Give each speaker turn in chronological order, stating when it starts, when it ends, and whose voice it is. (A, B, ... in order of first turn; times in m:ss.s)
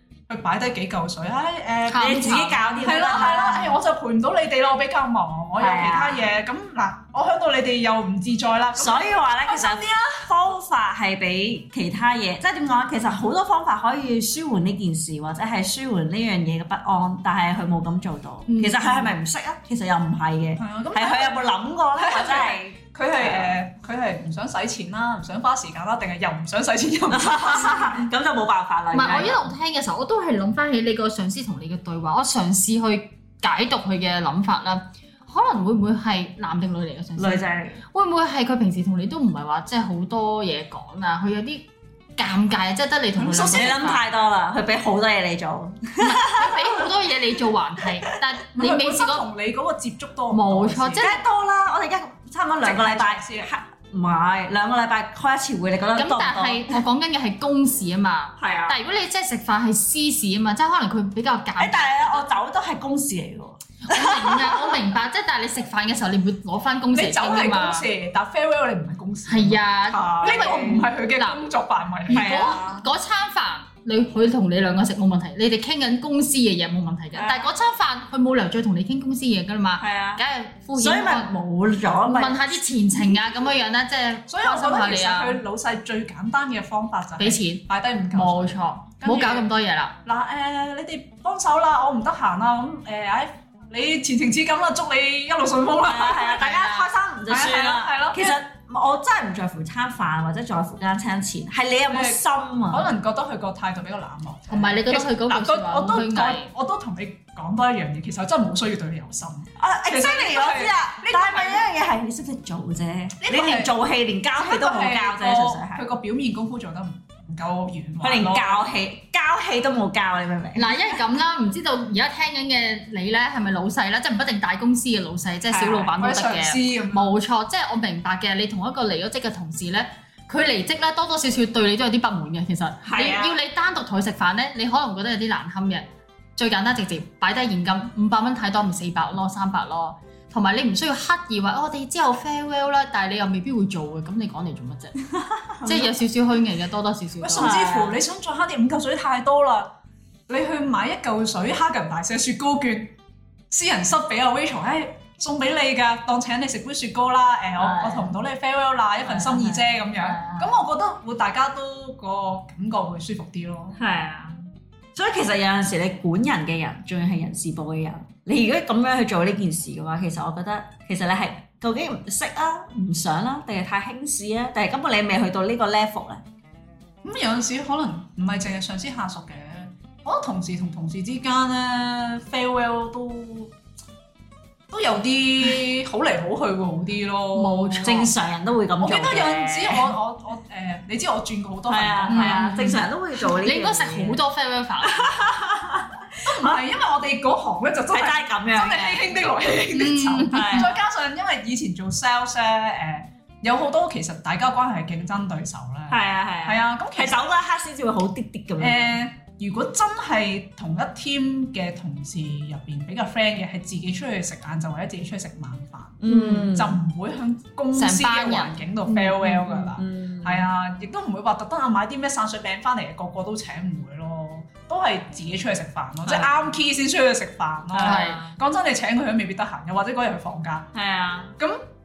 0:00.3-0:10.3 A
0:01.9-0:03.7 B
0:01.9-0:03.8 C
0:05.6-0:06.3 C
0:08.8-0:23.6 C
0:18.5-0:19.1 B
0:20.6-0:28.1 A
0:27.1-0:29.5 C
0:28.9-0:44.0 B
0:37.2-0:37.8 C
0:43.2-0:43.8 A
0:43.2-0:46.9 C
0:46.0-0:49.2 B
0:48.6-0:51.1 A
0:50.3-0:51.2 B
0:51.0-0:56.8 C
0:52.6-0:53.5 A
0:56.0-1:02.3 B
0:58.4-0:58.8 C
1:01.6-1:04.8 C
1:03.8-1:07.9 B
1:06.9-1:09.6 A
1:09.3-1:11.4 B
1:09.9-1:10.9 C
1:10.2-1:12.6 A
1:12.1-1:12.9 C
1:12.1-1:21.3 B
1:17.1-1:17.5 C
1:19.8-1:20.2 C
1:20.8-1:22.6 C
1:22.0-1:25.4 B
1:24.3-1:29.5 A
1:27.2-1:27.6 B
1:28.1-1:30.0 B
1:30.0-1:36.7 A
1:35.8-1:42.9 C
1:36.4-1:36.9 B
1:37.3-1:38.4 A
1:41.9-1:51.7 A
1:44.5-1:46.5 B
1:49.6-1:55.9 C
1:53.2-1:53.8 A
1:54.4-1:58.6 A
1:58.0-2:00.8 C
2:00.6-2:25.0 B
2:05.5-2:06.0 C
2:06.0-2:07.1 A
2:12.8-2:13.4 C
2:25.2-2:25.9 C
2:25.6-2:27.6 B
2:27.2-2:29.7 A
2:27.4-2:28.0 C
2:30.3-2:32.9 A
2:33.5-2:43.8 A
2:37.6-2:38.2 C
2:39.0-2:40.5 C
2:43.8-2:44.4 C
2:45.0-2:56.2 C
2:57.0-3:03.5 A
3:04.7-3:08.1 A
3:07.4-3:08.1 B
3:07.8-3:09.9 C
3:08.8-3:12.8 A
3:11.7-3:14.2 C
3:12.1-3:15.3 B
3:14.8-3:16.6 C
3:16.2-3:27.2 A
3:17.9-3:19.2 C
3:19.7-3:20.7 B
3:20.3-3:20.8 C
3:25.9-3:29.0 C
3:28.6-3:50.7 A
3:36.0-3:36.8 C
3:36.1-3:36.5 B
3:37.7-3:39.8 B
3:39.8-3:40.5 C
3:46.0-3:46.5 C
3:47.7-3:48.4 C
3:47.8-3:48.2 B
3:50.7-3:51.4 C